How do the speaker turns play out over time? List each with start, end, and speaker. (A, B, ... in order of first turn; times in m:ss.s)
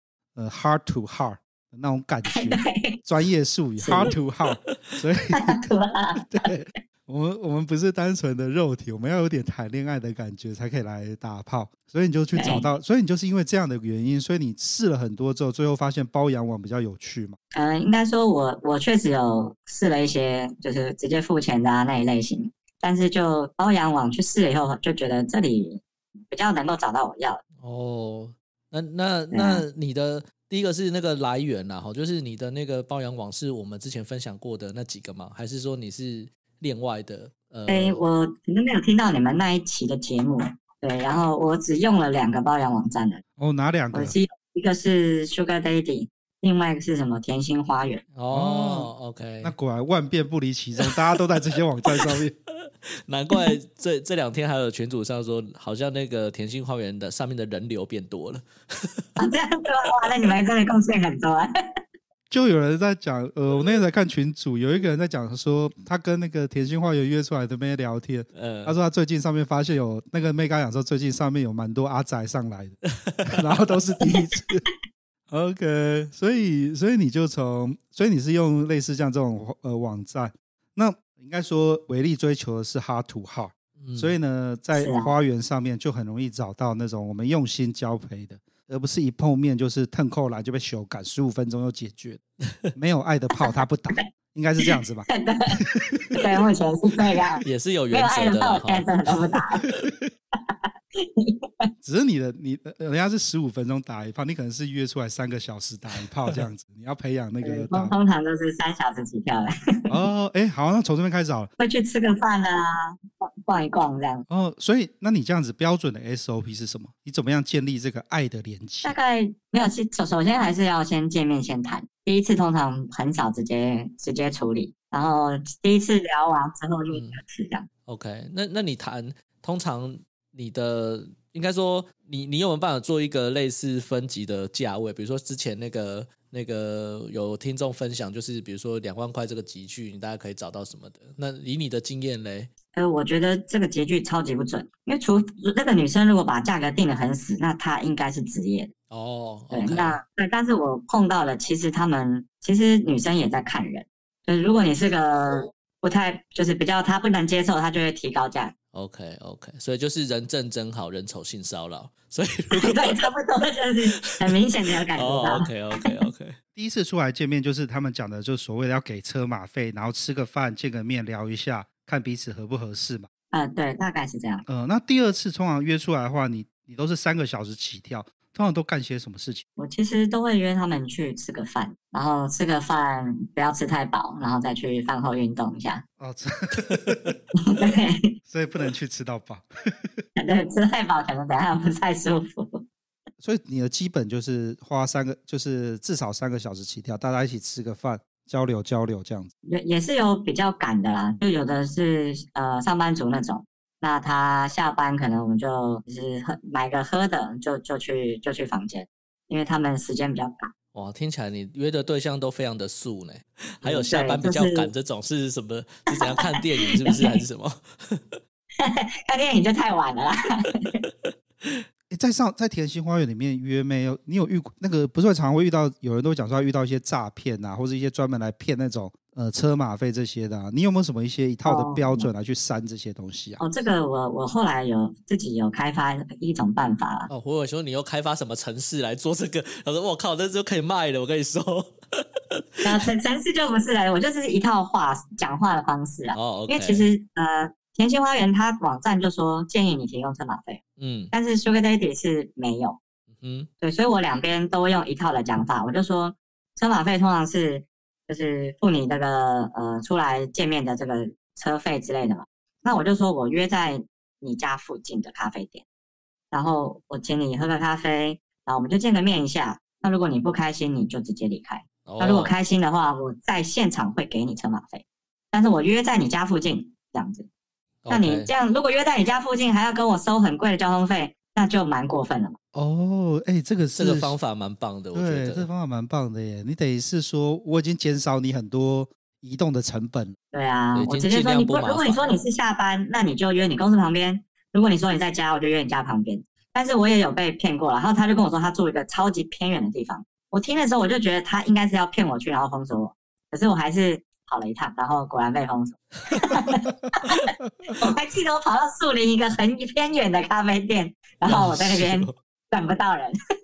0:00.4-0:05.7 A
0:02.3-0:03.0 B
0:03.8-0:04.1 B
0:05.3-0:06.5 B
0:06.3-0:17.4 A
0:12.3-0:12.7 B
0:17.5-0:27.4 B
0:27.6-0:38.0 C
0:29.3-0:29.6 B
0:37.7-0:43.2 B
0:43.4-0:44.2 A
0:43.9-0:48.0 B
0:48.1-0:49.5 C
0:48.3-0:48.9 A
0:49.4-0:52.3 A
0:53.1-0:59.1 C
0:59.2-1:01.5 B
1:02.3-1:14.6 A
1:08.4-1:08.8 C
1:13.0-1:13.4 C
1:15.3-1:32.2 A
1:23.8-1:24.1 C
1:24.8-1:25.1 B
1:32.7-1:35.1 A
1:34.7-1:35.6 B
1:35.6-1:36.2 A
1:36.2-1:39.6 B
1:37.4-1:38.9 C
1:41.0-1:41.7 B
1:41.8-1:47.9 A
1:47.4-1:49.5 B
1:49.9-1:51.5 A
1:51.6-1:54.2 B
1:54.3-1:59.0 A
1:58.8-2:07.7 B
2:06.9-2:07.2 C
2:07.9-2:22.5 C
2:22.8-2:28.7 B
2:28.9-2:30.0 C
2:29.5-2:38.5 B
2:38.7-2:43.1 C
2:42.5-2:45.9 B
2:45.0-2:46.4 C
2:46.6-2:53.1 A
2:53.3-2:54.4 B
2:54.5-2:59.4 A
2:59.6-3:05.8 B
3:06.0-3:07.1 A
3:06.7-3:07.0 C
3:07.5-3:08.2 B
3:08.3-3:10.0 A
3:10.2-3:12.6 B
3:13.2-3:19.3 A
3:19.5-3:30.5 B
3:30.7-3:38.2 C
3:33.6-3:34.7 B
3:35.9-3:37.2 B
3:38.6-3:40.8 B
3:41.1-3:41.6 C
3:41.9-3:53.4 A
3:51.4-3:52.1 B
3:53.4-3:57.1 B
3:57.1-4:01.8 C
4:02.4-4:02.8 C
4:02.6-4:12.8 B
4:06.1-4:06.9 C
4:10.8-4:11.1 C
4:13.2-4:13.5 C
4:13.6-4:25.6 B
4:26.3-4:37.3 B
4:31.9-4:32.3 C
4:37.8-4:38.3 C
4:37.9-4:42.4 B
4:42.5-4:44.2 A
4:43.8-4:45.5 C
4:44.9-4:50.2 A
4:50.3-5:13.2 B
4:50.8-4:52.1 C
5:11.3-5:12.1 C